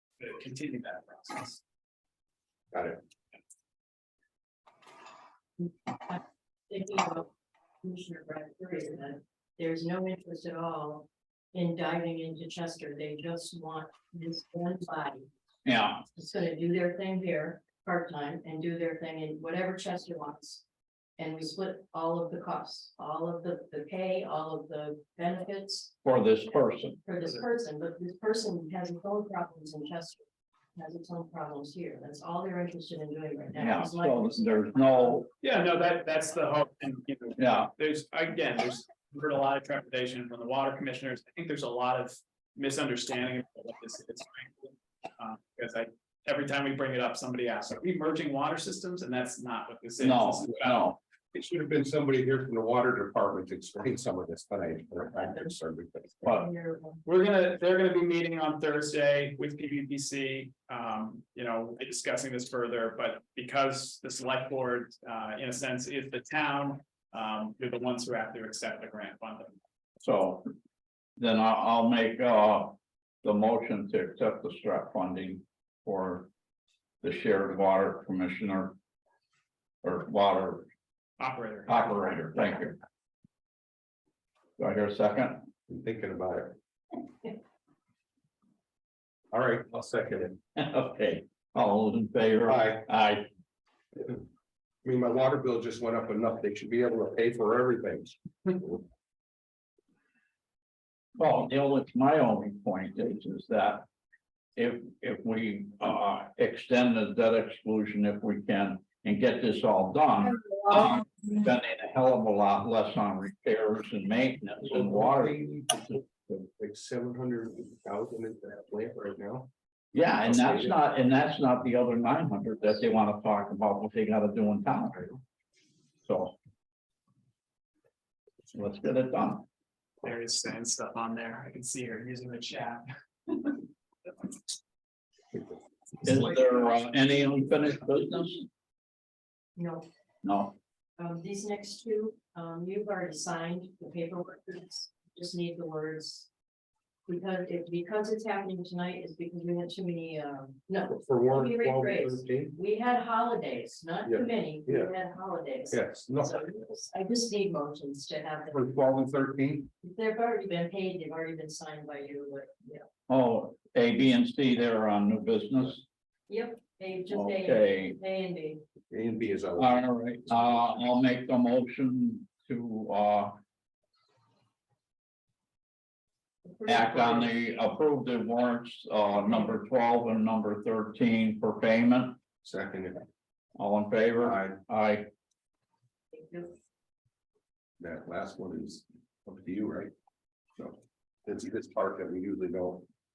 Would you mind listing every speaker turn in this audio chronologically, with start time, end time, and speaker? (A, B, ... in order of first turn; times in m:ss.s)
0:00.2-0:01.6 A
0:02.7-0:03.0 B
0:05.6-0:07.3 C
0:07.8-0:15.2 C
0:15.6-0:16.0 D
0:16.1-0:20.6 C
0:21.2-0:26.0 C
0:26.0-0:27.0 D
0:27.0-0:30.2 C
0:30.7-0:35.2 C
0:33.5-0:35.3 D
0:35.4-0:50.8 A
0:37.4-0:37.7 D
0:50.0-0:51.0 D
0:51.3-0:56.2 B
0:56.3-0:57.0 C
0:57.0-1:09.5 A
1:10.0-1:10.5 D
1:11.2-1:16.3 D
1:17.0-1:18.8 D
1:19.8-1:20.7 D
1:21.2-1:22.0 A
1:21.7-1:22.8 D
1:24.6-1:25.5 D
1:25.7-1:26.6 B
1:29.3-1:30.4 B
1:30.6-1:33.3 D
1:32.5-1:32.9 B
1:34.0-1:34.2 B
1:34.8-1:38.8 B
1:41.2-1:43.8 D
1:44.6-1:55.3 D
1:54.6-1:59.5 B
1:59.9-2:05.1 D
2:00.1-2:00.8 B
2:06.0-2:06.4 D
2:08.5-2:09.4 D
2:10.0-2:13.6 A
2:16.0-2:18.4 D
2:19.6-2:19.9 C
2:20.2-2:20.5 D
2:21.0-2:26.3 C
2:27.1-2:38.6 C
2:30.9-2:32.6 B
2:34.0-2:34.9 B
2:35.7-2:36.5 B
2:38.5-2:39.7 B
2:39.8-2:42.8 C
2:43.1-2:45.8 D
2:46.3-2:48.7 C
2:47.1-2:48.0 D
2:48.9-2:49.8 B
2:49.6-2:53.4 D
2:56.5-2:57.3 C
2:56.7-3:02.2 D
3:02.4-3:03.0 B
3:03.6-3:05.1 D
3:04.2-3:04.6 B
3:06.2-3:06.5 C
3:07.8-3:09.9 B
3:10.6-3:12.9 B